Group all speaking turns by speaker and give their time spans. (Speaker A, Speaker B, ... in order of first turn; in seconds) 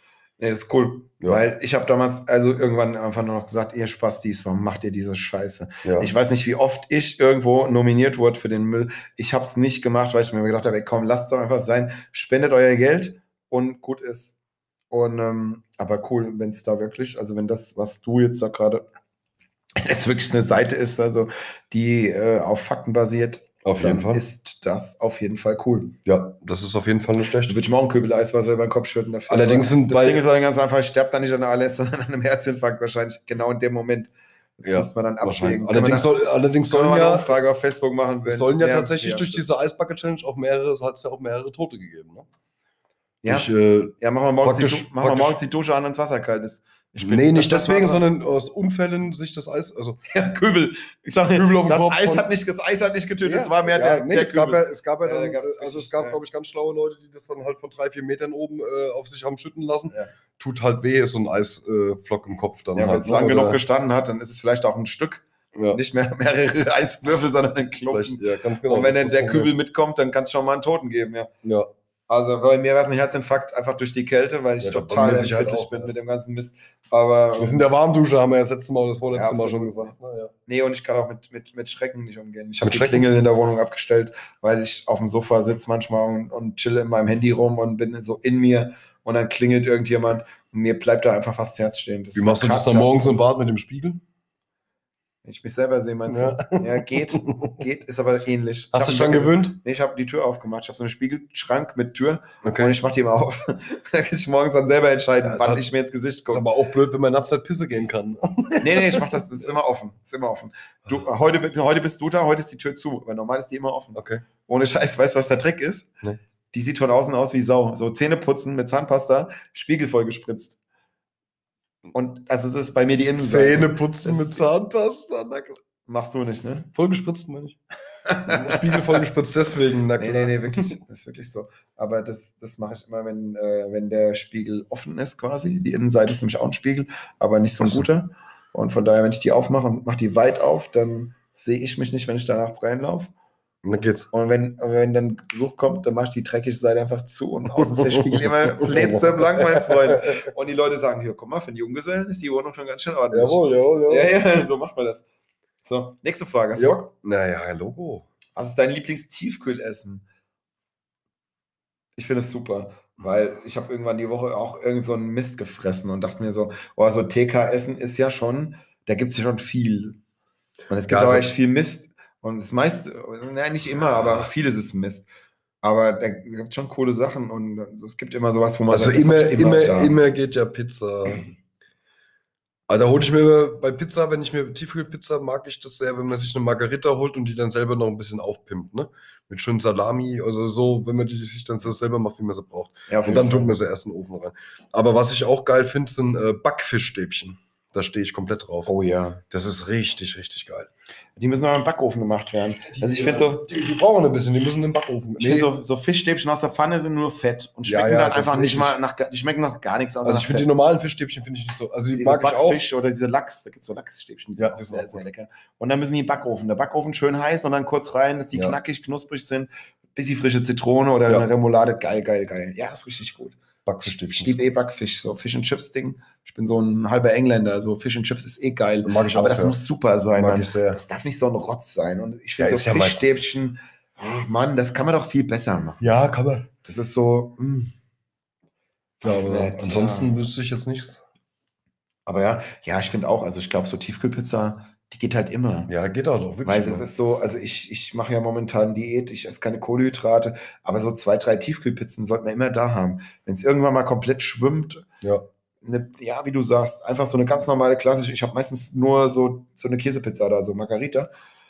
Speaker A: 0.4-14.4, 14.9-18.9, 19.8-26.0, 27.5-39.5, 43.2-48.0, 50.1-56.2, 62.8-71.3, 72.1-77.7, 79.1-79.9, 80.5-93.2, 95.2-106.5, 108.6-115.9, 116.5-120.6, 121.9-124.5, 125.9-126.7, 128.1-129.0, 130.0-143.1, 144.1-155.1, 155.7-156.9, 158.3-160.1, 162.0-170.0, 170.7-175.1, 175.6-180.0, 192.9-193.5, 198.7-199.2, 201.2-203.5, 205.2-210.5, 211.9-236.0, 236.6-237.7, 239.0-240.2, 242.1-245.7, 246.4-254.9, 255.6-261.1
Speaker B: 5.8-6.1, 23.6-24.2, 26.1-27.6, 29.3-30.3, 34.6-37.4, 38.2-42.3, 43.3-45.4, 47.0-50.0, 51.3-52.3, 53.2-63.6, 65.5-65.8, 67.9-69.5, 71.4-71.7, 74.6-75.9, 77.4-80.3, 82.6-83.1, 92.2-94.0, 96.1-97.6, 98.7-99.6, 102.4-102.7, 105.2-105.7, 106.3-109.0, 114.0-114.2, 123.2-125.6, 126.7-127.6, 128.3-130.8, 137.6-137.9, 143.6-144.1, 147.6-150.2, 153.1-154.1, 156.6-158.1, 170.9-171.3, 178.7-181.3, 182.7-198.7, 199.3-200.7, 202.7-205.5, 207.7-208.8, 210.0-212.6, 214.4-215.1, 223.7-224.4, 228.8-229.6, 230.1-230.8, 232.4-233.2, 235.8-236.5, 239.0-241.0, 245.7-246.9